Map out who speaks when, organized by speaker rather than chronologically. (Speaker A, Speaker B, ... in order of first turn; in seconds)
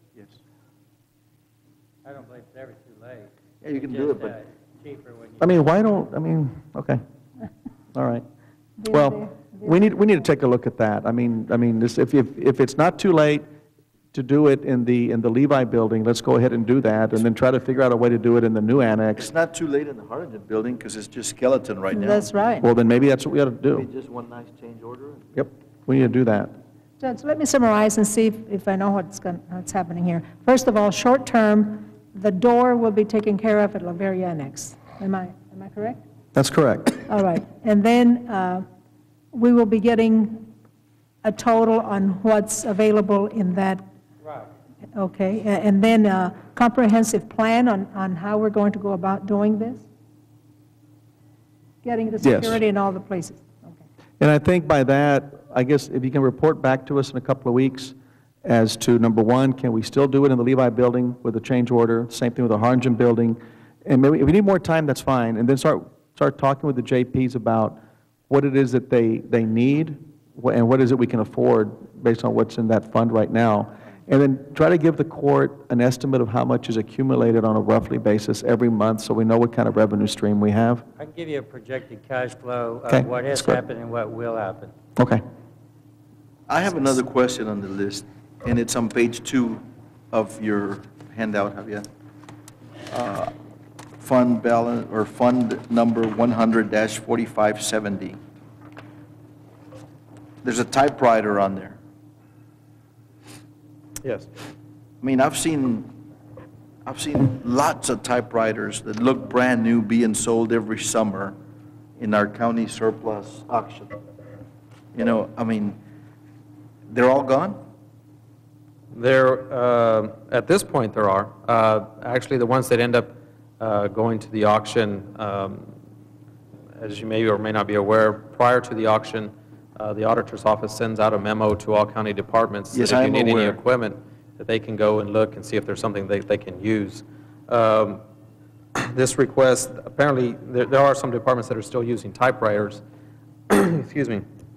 Speaker A: 2.0-5.8, 81.0-84.7
Speaker B: 3.6-4.3, 19.2-22.3, 23.7-25.2, 86.5-91.8, 92.9-93.3, 94.0-98.2, 100.4-101.8, 105.0-105.9, 106.8-111.3, 112.0-113.9, 114.9-115.8, 116.9-117.6, 132.7-133.6
Speaker C: 5.4-7.0, 7.9-8.2, 8.9-13.4, 14.1-19.3, 22.6-23.9, 25.4-26.5, 36.3-37.0, 52.2-52.6, 54.2-57.9, 58.4-67.8, 68.3-80.8, 82.9-83.5, 85.0-85.2
Speaker D: 8.8-9.8, 21.9-22.7, 27.0-36.0, 37.1-38.6, 39.3-40.5, 41.2-43.8, 44.9-49.8, 51.8-53.8
Speaker E: 104.0-104.3, 118.9-125.7, 126.8-138.0, 138.8-142.8, 143.5-144.2